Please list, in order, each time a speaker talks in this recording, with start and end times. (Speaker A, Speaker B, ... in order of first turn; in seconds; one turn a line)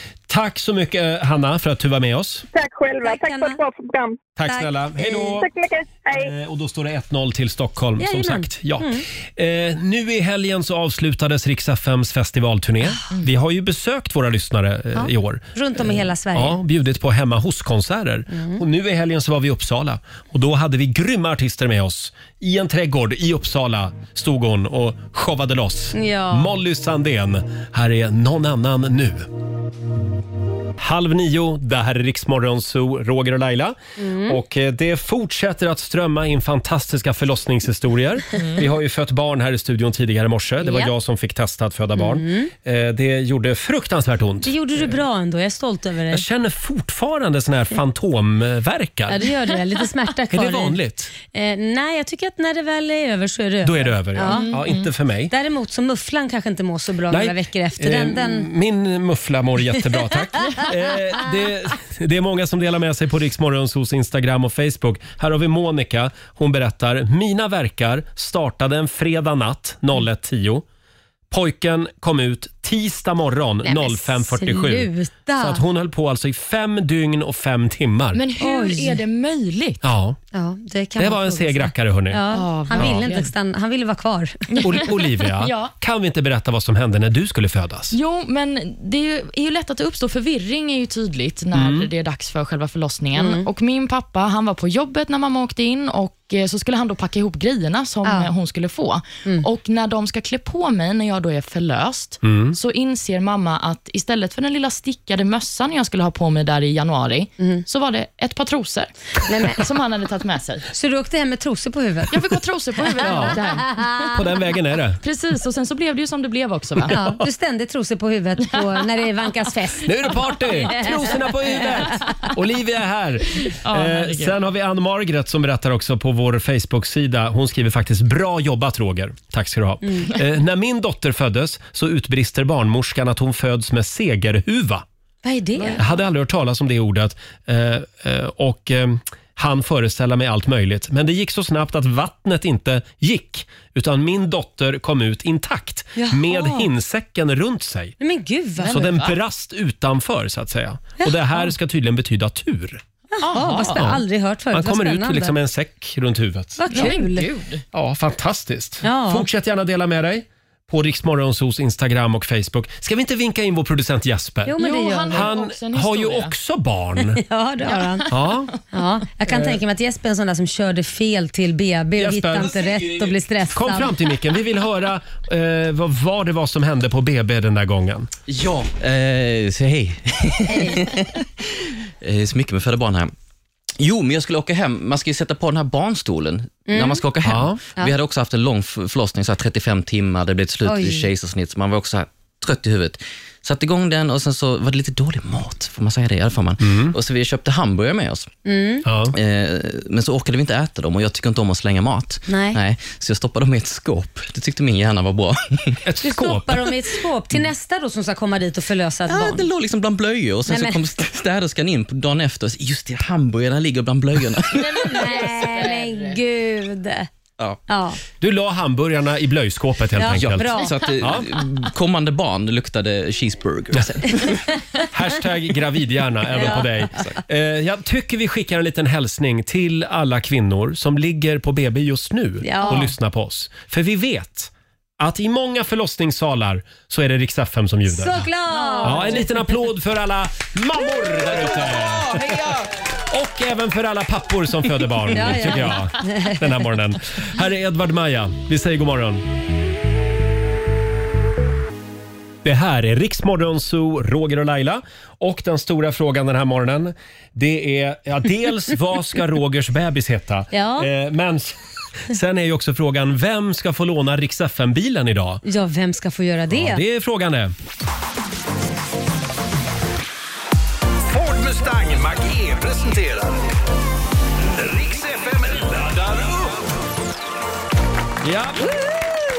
Speaker A: 0.3-2.5
Speaker B: 2.5-4.2
Speaker C: 3.0-3.6
Speaker A: 4.4-5.5
Speaker C: 4.5-5.3
Speaker B: 5.3-6.3
Speaker A: 6.1-29.3
Speaker C: 8.0-9.1
Speaker C: 14.9-16.6
Speaker C: 18.3-18.6
Speaker C: 25.9-26.5
Speaker A: 30.8-44.5
Speaker C: 34.0-34.4
Speaker C: 40.6-40.9
Speaker C: 42.0-42.5
Speaker C: 44.4-46.2
Speaker A: 46.1-49.2
Speaker C: 49.1-54.5
Speaker A: 50.3-51.1
Speaker A: 53.6-55.3
Speaker D: 54.3-54.9
Speaker C: 55.3-58.5
Speaker A: 57.1-70.7
Speaker A: 71.3-78.2
Speaker C: 73.7-75.6
Speaker D: 78.1-79.8
Speaker C: 78.4-79.0
Speaker A: 79.8-80.2
Speaker C: 80.3-84.6
Speaker A: 81.0-82.2
Speaker D: 82.3-83.3
Speaker A: 82.8-83.1
Speaker D: 84.5-84.8
Speaker A: 84.6-88.0
Speaker D: 85.4-85.7
Speaker D: 87.9-110.7
Speaker A: 91.5-91.9
Speaker C: 93.2-93.5
Speaker C: 98.0-98.3
Speaker A: 102.2-102.6
Speaker C: 107.4-107.6
Speaker C: 109.3-109.6
Speaker C: 110.7-112.3
Speaker D: 112.1-114.1
Speaker C: 113.0-114.1
Speaker A: 113.0-113.4
Speaker A: 114.1-115.0
Speaker D: 115.0-116.9
Speaker A: 116.8-117.3
Speaker C: 116.9-121.2
Speaker A: 119.8-134.9
Speaker D: 123.6-124.3
Speaker C: 135.2-135.8
Speaker A: 135.8-148.0
Speaker C: 146.0-146.6
Speaker C: 148.0-148.9
Speaker D: 148.6-149.1
Speaker A: 148.6-152.8
Speaker C: 153.2-155.3
Speaker D: 153.2-153.9
Speaker A: 153.7-156.9
Speaker C: 156.6-157.3
Speaker D: 156.7-157.6
Speaker A: 157.7-164.6
Speaker C: 158.8-159.3
Speaker C: 164.5-165.3
Speaker D: 164.6-166.3
Speaker A: 165.1-167.2
Speaker C: 167.1-168.1
Speaker A: 168.1-168.5
Speaker C: 168.7-174.0
Speaker A: 169.3-169.6
Speaker A: 172.0-178.1
Speaker E: 178.3-181.2
Speaker C: 180.5-180.9
Speaker E: 182.0-183.1
Speaker E: 183.8-198.3
Speaker C: 186.7-187.0
Speaker A: 187.2-187.6
Speaker C: 190.6-191.1
Speaker A: 196.6-196.9
Speaker C: 198.4-198.9
Speaker A: 198.8-199.2
Speaker E: 199.1-205.8
Speaker C: 202.3-202.6
Speaker A: 205.8-206.7
Speaker C: 206.0-209.5
Speaker E: 209.1-215.1
Speaker C: 210.5-210.8
Speaker D: 214.5-216.2
Speaker C: 214.8-217.1
Speaker C: 217.7-218.0
Speaker A: 218.2-221.3
Speaker C: 220.0-220.8
Speaker E: 220.1-224.5
Speaker A: 224.9-238.3
Speaker C: 226.3-227.1
Speaker C: 232.4-232.9
Speaker C: 237.9-239.3
Speaker D: 238.6-238.9
Speaker A: 238.8-249.3
Speaker C: 245.1-246.5
Speaker A: 252.4-261.6
Speaker C: 260.5-260.9
Speaker A: 262.1-265.4
Speaker C: 265.4-266.8
Speaker A: 266.5-267.5
Speaker F: 271.1-273.6
Speaker F: 274.5-276.6
Speaker A: 278.2-278.8